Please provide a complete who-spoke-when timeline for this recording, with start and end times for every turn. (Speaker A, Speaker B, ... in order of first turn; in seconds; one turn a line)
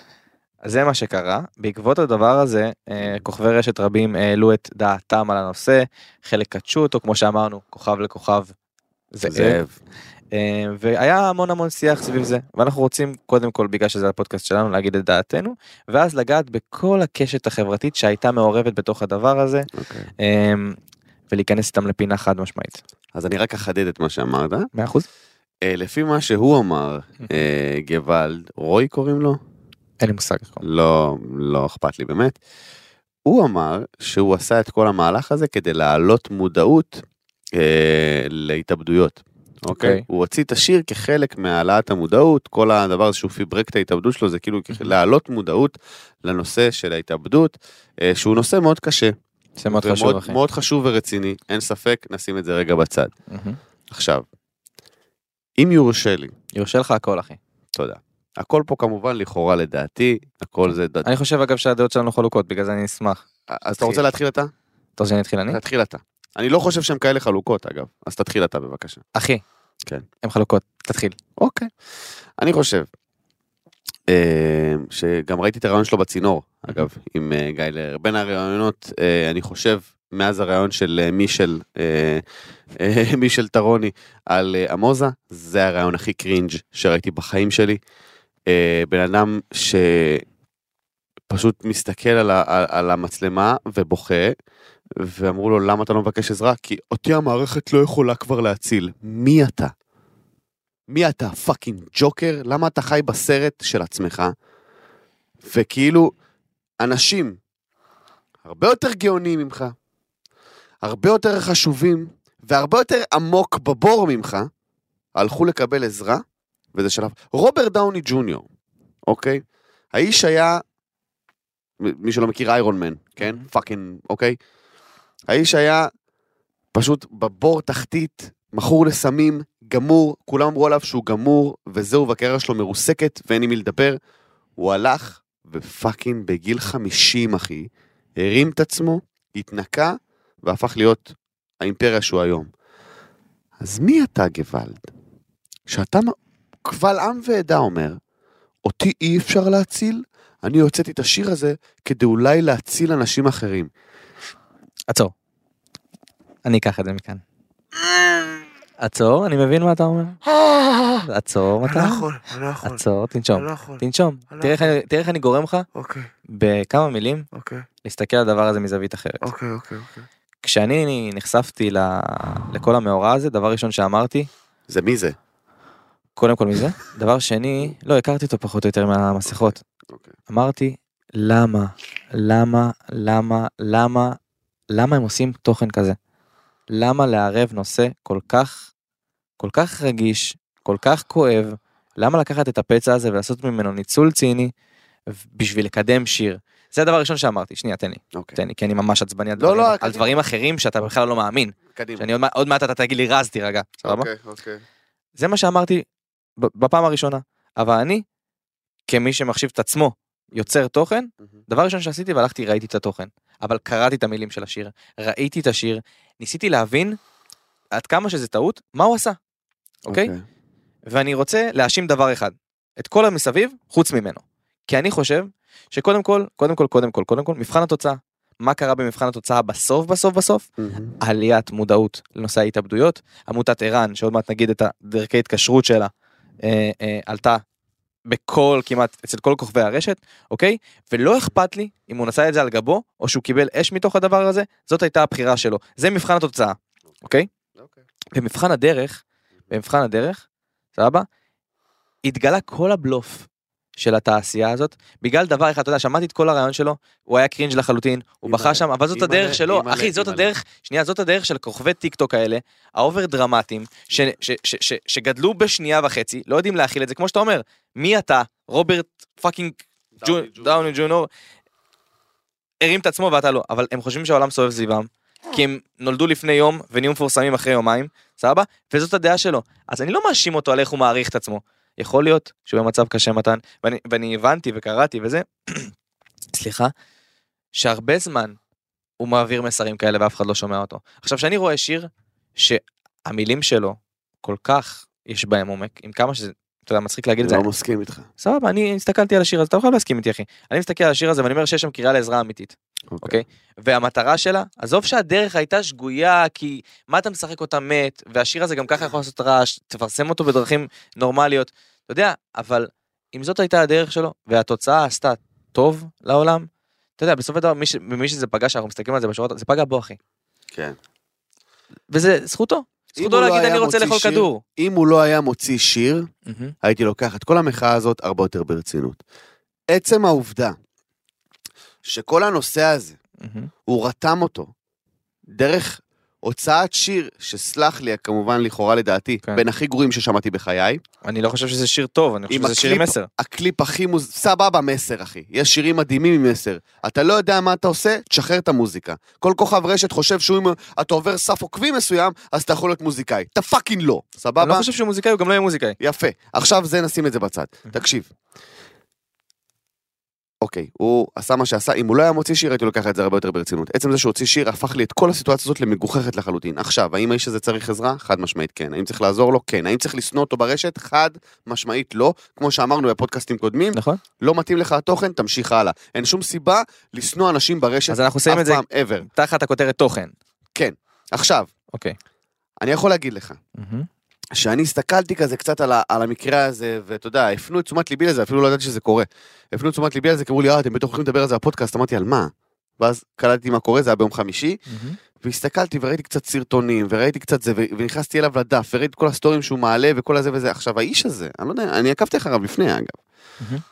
Speaker A: 0.6-8.5
Speaker B: 3.0-3.2
Speaker A: 9.1-9.6
Speaker B: 9.2-9.7
Speaker A: 10.3-20.8
Speaker B: 19.7-20.1
Speaker A: 21.3-22.8
Speaker B: 23.1-24.7
Speaker A: 24.7-25.1
Speaker B: 25.6-29.4
Speaker A: 30.0-30.6
Speaker B: 30.6-32.4
Speaker B: 33.2-49.1
Speaker A: 39.7-40.0
Speaker A: 49.6-50.4
Speaker B: 49.7-53.1
Speaker A: 53.3-53.6
Speaker B: 53.9-54.2
Speaker B: 55.6-56.3
Speaker A: 56.5-57.4
Speaker B: 57.7-61.1
Speaker A: 61.0-63.2
Speaker B: 63.5-64.5
Speaker A: 63.8-64.0
Speaker A: 65.0-65.6
Speaker B: 65.5-69.0
Speaker A: 69.1-69.4
Speaker A: 70.2-71.2
Speaker B: 71.4-71.7
Speaker B: 72.4-72.9
Speaker B: 74.1-82.2
Speaker B: 82.8-87.8
Speaker B: 88.5-90.2
Speaker B: 91.3-94.3
Speaker B: 95.0-99.7
Speaker B: 100.9-104.3
Speaker B: 105.4-106.1
Speaker B: 106.8-107.4
Speaker B: 108.4-109.7
Speaker B: 110.8-114.5
Speaker B: 115.1-116.2
Speaker B: 116.7-118.5
Speaker B: 119.1-120.6
Speaker B: 121.8-124.4
Speaker A: 123.2-123.5
Speaker B: 125.3-125.9
Speaker B: 126.7-134.0
Speaker B: 134.6-142.5
Speaker B: 143.6-144.9
Speaker B: 145.7-148.0
Speaker B: 148.6-153.7
Speaker A: 156.4-157.2
Speaker B: 157.9-158.3
Speaker A: 158.8-160.2
Speaker B: 160.4-160.9
Speaker A: 161.0-165.7
Speaker B: 161.7-162.8
Speaker B: 163.4-163.8
Speaker B: 164.4-164.7
Speaker B: 165.8-166.1
Speaker A: 166.3-167.3
Speaker B: 167.3-167.6
Speaker A: 167.8-169.3
Speaker B: 169.2-170.0
Speaker A: 170.4-174.3
Speaker B: 174.7-175.2
Speaker A: 176.2-179.6
Speaker B: 179.3-180.1
Speaker A: 180.3-184.2
Speaker A: 184.7-186.0
Speaker A: 186.7-188.7
Speaker A: 189.4-194.5
Speaker A: 195.1-204.1
Speaker B: 198.1-198.4
Speaker B: 199.4-200.2
Speaker B: 201.7-202.1
Speaker B: 203.8-204.6
Speaker A: 205.2-205.8
Speaker A: 206.4-208.0
Speaker A: 208.9-217.0
Speaker A: 217.7-219.2
Speaker A: 219.8-220.1
Speaker B: 219.9-220.2
Speaker A: 220.9-230.5
Speaker B: 230.6-230.9
Speaker A: 231.0-235.9
Speaker A: 236.4-237.4
Speaker A: 238.1-247.3
Speaker A: 248.1-250.2
Speaker A: 250.8-251.1
Speaker A: 252.0-253.3
Speaker A: 253.8-271.1
Speaker B: 258.2-260.3
Speaker B: 269.9-270.6
Speaker A: 272.6-285.7
Speaker A: 286.3-286.7
Speaker A: 287.5-288.4
Speaker A: 289.0-297.4
Speaker B: 297.2-298.1
Speaker A: 298.2-320.0
Speaker B: 302.9-303.2
Speaker A: 321.9-324.4
Speaker B: 322.9-326.1
Speaker A: 326.2-326.5
Speaker B: 326.6-329.0
Speaker B: 329.7-330.6
Speaker B: 331.8-333.0
Speaker A: 333.2-333.5
Speaker B: 333.6-334.5
Speaker B: 335.3-340.8
Speaker A: 341.0-343.1
Speaker B: 342.3-354.7
Speaker A: 354.4-355.8
Speaker B: 355.8-358.1
Speaker B: 360.4-379.1
Speaker A: 373.7-374.0
Speaker A: 377.9-380.1
Speaker B: 380.5-381.5
Speaker B: 382.6-383.4
Speaker A: 383.6-383.9
Speaker B: 384.3-394.6
Speaker A: 394.7-395.0
Speaker B: 395.2-403.0